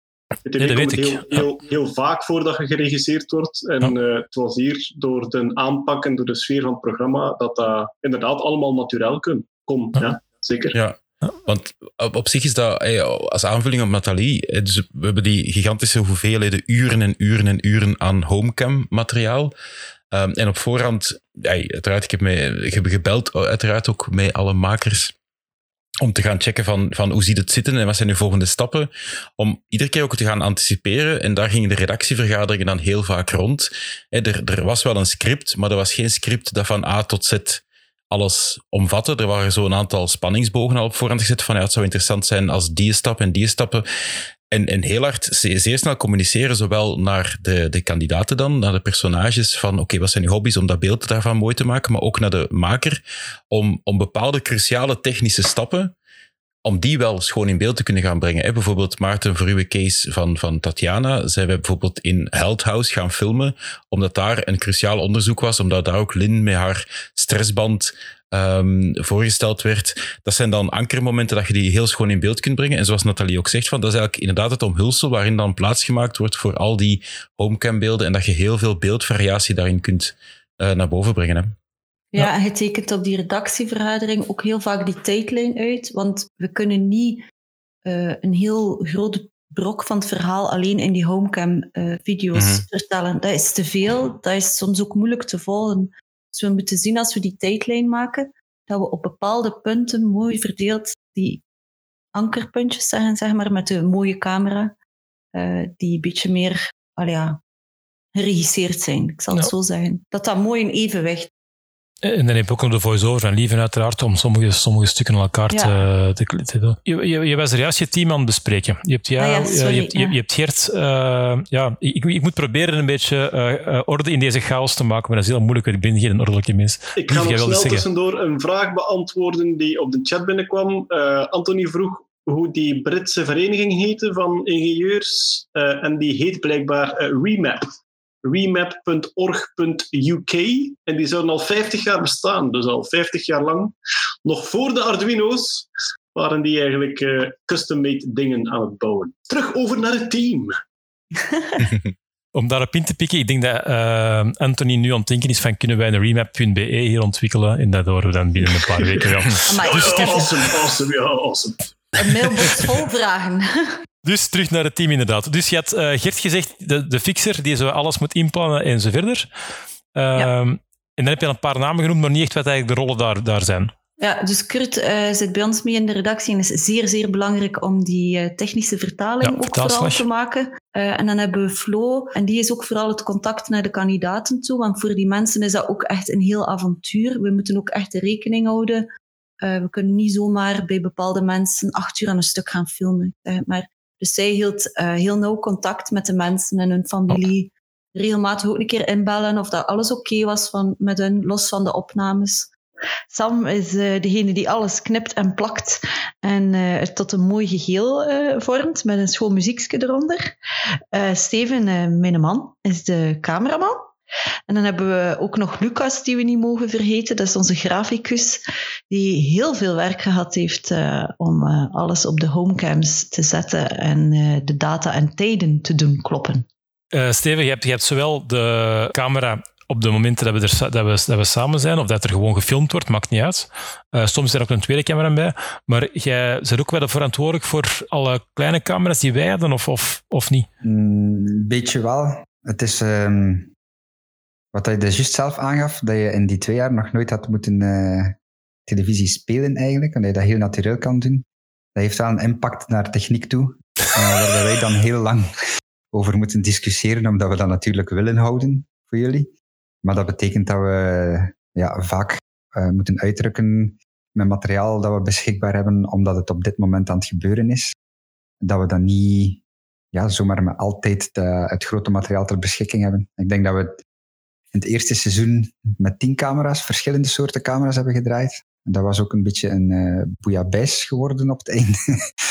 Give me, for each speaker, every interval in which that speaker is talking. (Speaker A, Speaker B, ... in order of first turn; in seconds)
Speaker A: 0.4-10.8, 127.0-137.7, 138.2-150.6, 159.6-161.7
Speaker B: 0.6-1.5, 112.0-127.8, 152.3-159.5, 164.0-169.3, 169.9-173.7, 179.2-180.1, 226.9-240.5
Speaker C: 10.7-19.5, 20.1-25.1, 26.0-43.9, 44.5-56.0, 56.6-81.6, 92.3-92.7
Speaker D: 82.1-87.3, 87.9-101.4, 102.1-104.8, 105.3-107.4, 108.2-111.3, 115.5-115.8, 119.2-120.2, 151.2-151.7, 159.5-160.5, 162.0-163.8, 174.0-188.9, 189.4-202.5, 203.1-210.3, 210.9-213.9, 214.5-226.5
Speaker E: 240.6-243.5, 244.5-251.2, 251.8-255.3, 255.9-259.3, 259.8-267.8, 268.4-269.4, 269.9-273.8, 274.5-281.8